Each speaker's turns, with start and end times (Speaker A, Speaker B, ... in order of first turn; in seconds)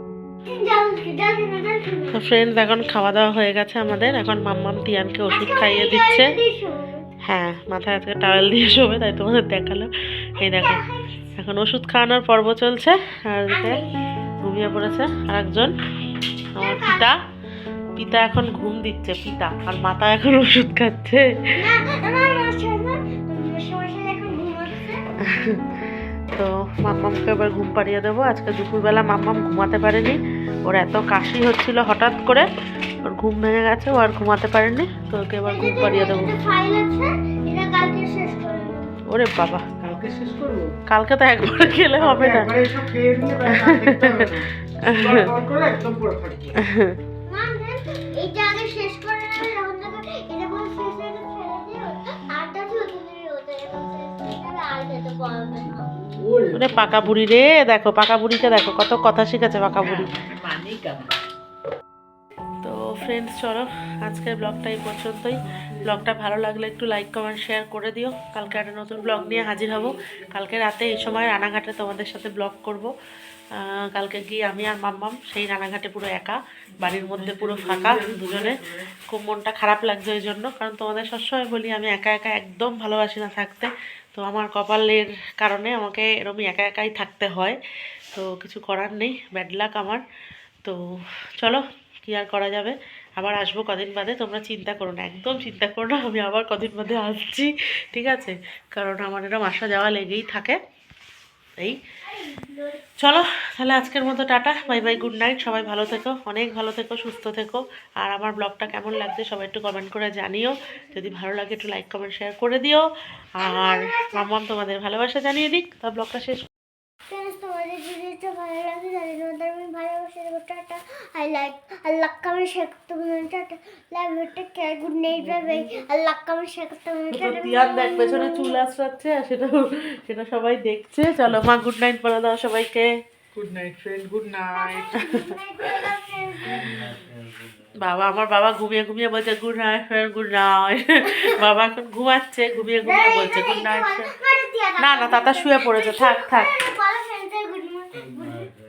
Speaker A: 0.5-2.2, 5.3-7.1, 10.4-11.3, 13.5-14.0, 16.6-17.1, 21.5-25.0, 35.5-38.9, 47.3-55.9, 102.2-102.8, 104.3-105.9, 113.4-114.2, 117.1-128.6, 134.5-136.9, 142.8-148.5
Speaker B: 2.1-6.4, 7.2-10.8, 11.4-13.8, 14.4-15.7, 16.6-17.2, 17.9-21.2, 25.3-25.8, 26.3-32.5, 33.0-36.3, 39.1-39.7, 40.9-42.5, 43.5-45.3, 46.6-47.0, 56.5-60.1, 62.6-72.9, 73.6-87.6, 88.1-90.0, 91.4-100.6, 103.0-112.8, 113.4-116.5, 127.1-132.9, 137.8-144.1, 144.8-146.5
Speaker C: 39.8-40.7, 42.0-46.6, 55.6-57.1, 59.8-61.2, 69.5-70.2, 76.8-78.9, 125.1-125.7, 133.3-135.1, 136.5-137.0